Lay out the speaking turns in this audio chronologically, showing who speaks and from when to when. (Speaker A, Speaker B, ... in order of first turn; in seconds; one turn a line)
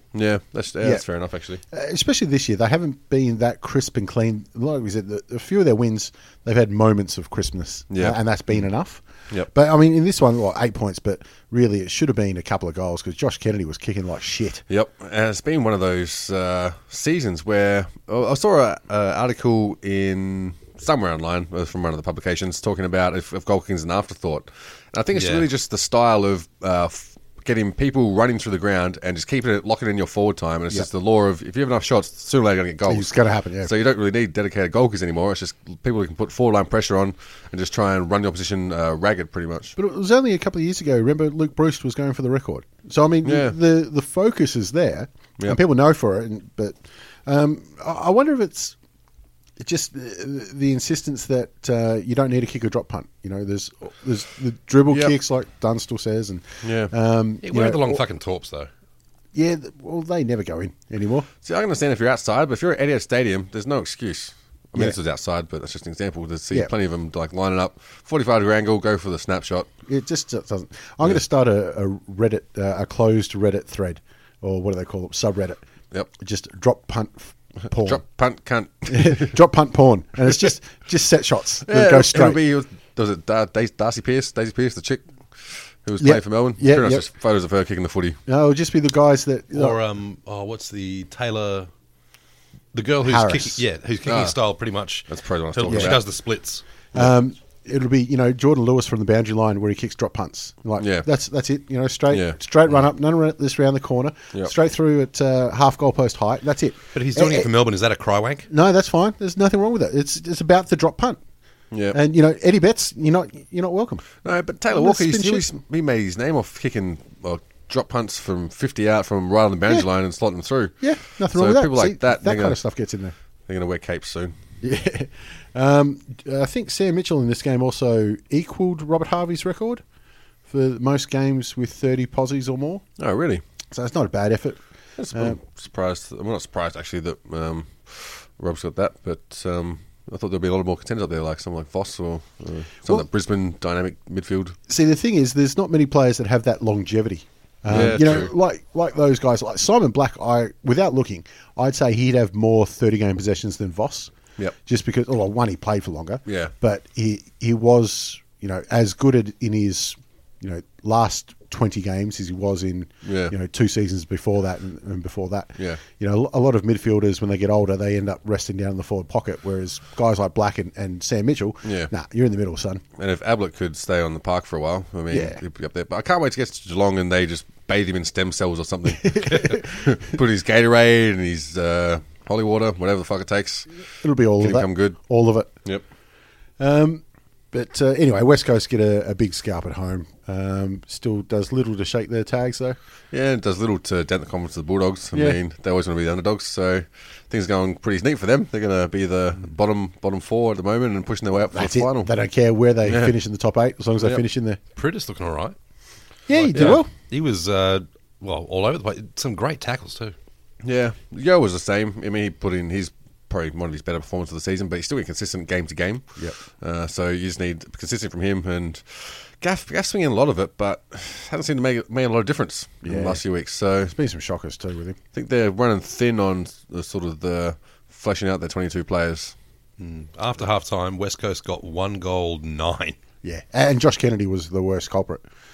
Speaker A: 0.1-1.6
Speaker B: 1.7-14.7
Speaker A: 7.9-8.6
Speaker A: 14.7-33.1
Speaker C: 25.1-25.5
Speaker B: 32.9-33.7
Speaker A: 33.6-39.7
Speaker B: 39.8-48.8
Speaker A: 43.2-43.5
Speaker B: 49.6-58.0
Speaker A: 56.6-56.9
Speaker C: 57.4-58.7
Speaker B: 59.3-61.3
Speaker A: 61.4-69.7
Speaker B: 69.9-75.6
Speaker B: 76.1-78.0
Speaker A: 77.7-79.4
Speaker B: 78.9-82.4
Speaker A: 81.7-88.2
Speaker B: 86.0-87.0
Speaker B: 88.3-89.8
Speaker C: 89.5-91.7
Speaker C: 92.7-96.6
Speaker B: 93.0-93.6
Speaker A: 94.1-94.4
Speaker A: 95.1-96.0
Speaker B: 95.7-96.0
Speaker B: 96.9-107.5
Speaker A: 100.8-101.1
Speaker A: 102.1-102.3
Speaker C: 106.9-108.5
Speaker B: 108.5-111.2
Speaker A: 111.7-112.0
Speaker B: 111.9-114.0
Speaker A: 114.2-122.6
Speaker B: 114.7-115.5
Speaker B: 120.8-123.2
Speaker A: 123.5-124.3
Speaker B: 124.6-129.8
Speaker B: 130.5-132.8
Speaker A: 133.0-133.4
Speaker B: 133.7-135.4
Speaker A: 135.0-144.6
Speaker B: 144.7-154.1
Speaker A: 147.7-148.3
Speaker B: 154.7-172.8
Speaker A: 163.1-163.3
Speaker A: 171.7-171.9
Speaker A: 173.0-183.7
Speaker B: 175.1-175.4
Speaker B: 178.9-179.9
Speaker B: 184.0-185.5
Speaker A: 184.4-185.0
Speaker B: 186.6-192.8
Speaker A: 193.1-202.1
Speaker B: 195.1-195.4
Speaker B: 201.5-204.6
Speaker A: 202.9-203.1
Speaker C: 204.8-205.6
Speaker B: 206.3-206.9
Speaker C: 206.3-210.2
Speaker A: 206.5-206.8
Speaker A: 210.6-216.1
Speaker A: 216.6-223.9
Speaker B: 222.8-223.2
Speaker B: 223.9-225.0
Speaker A: 225.2-229.3
Speaker C: 229.8-233.0
Speaker B: 233.2-235.2